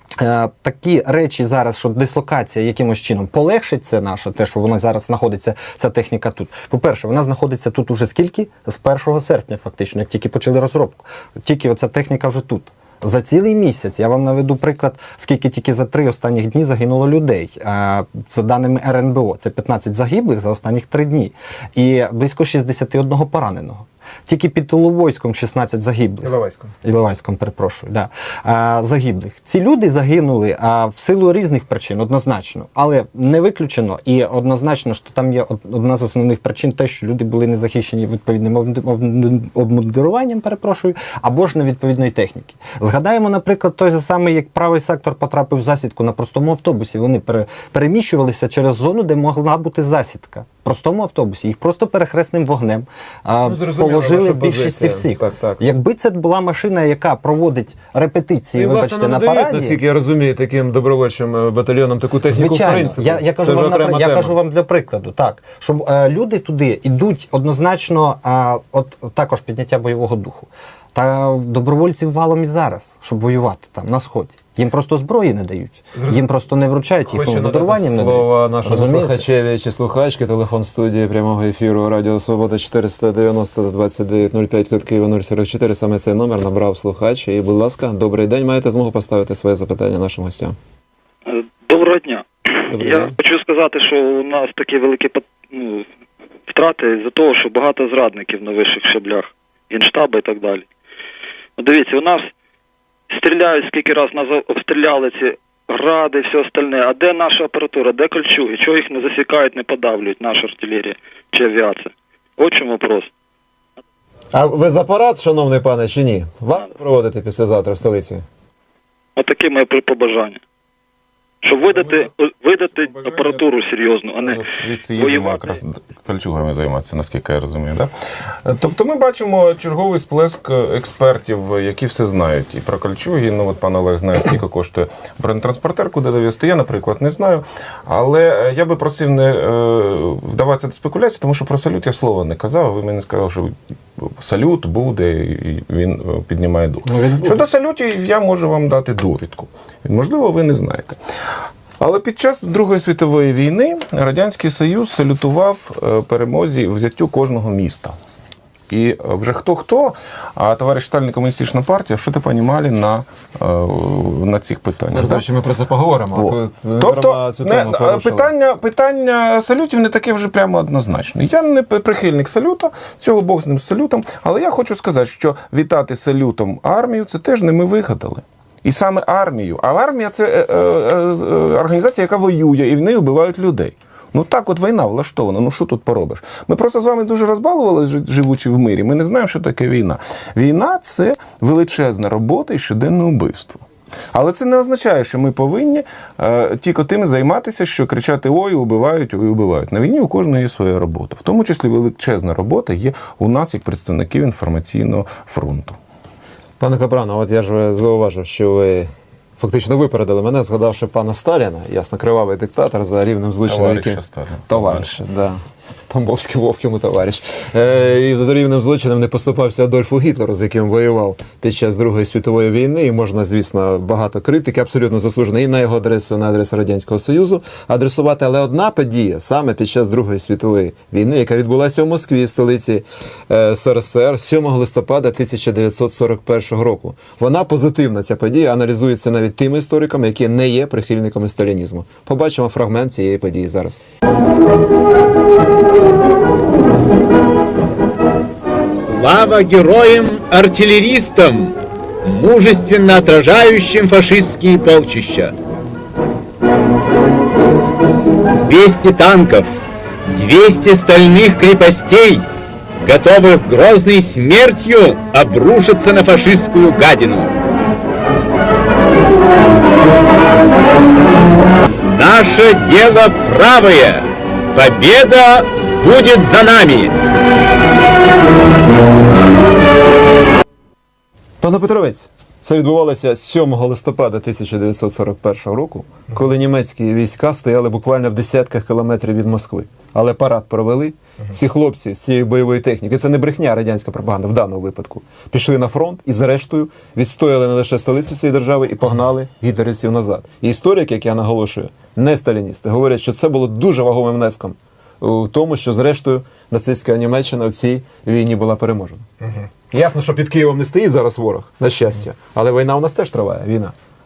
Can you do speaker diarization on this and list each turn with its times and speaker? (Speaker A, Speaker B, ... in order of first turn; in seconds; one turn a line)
Speaker A: 0.2-59.8
Speaker B: 26.2-26.7
Speaker B: 53.4-55.7
Speaker B: 58.5-64.4
Speaker A: 62.3-79.2
Speaker B: 75.9-76.3
Speaker B: 77.1-90.6
Speaker C: 91.3-95.9
Speaker B: 92.7-93.2
Speaker C: 96.5-100.7
Speaker C: 101.6-102.3
Speaker C: 103.1-113.1
Speaker B: 114.3-118.2
Speaker C: 119.2-120.4
Speaker C: 121.4-124.4
Speaker D: 124.2-127.9
Speaker C: 125.0-125.6
Speaker D: 128.4-151.0
Speaker A: 146.8-147.4
Speaker D: 151.8-157.9
Speaker D: 158.7-165.2
Speaker B: 164.9-168.3
Speaker D: 166.2-205.8
Speaker B: 206.6-243.8
Speaker D: 213.5-214.9
Speaker E: 248.7-255.3
Speaker E: 258.4-262.3
Speaker E: 262.8-267.4
Speaker E: 271.9-277.0
Speaker B: 281.4-309.1
Speaker B: 309.7-313.7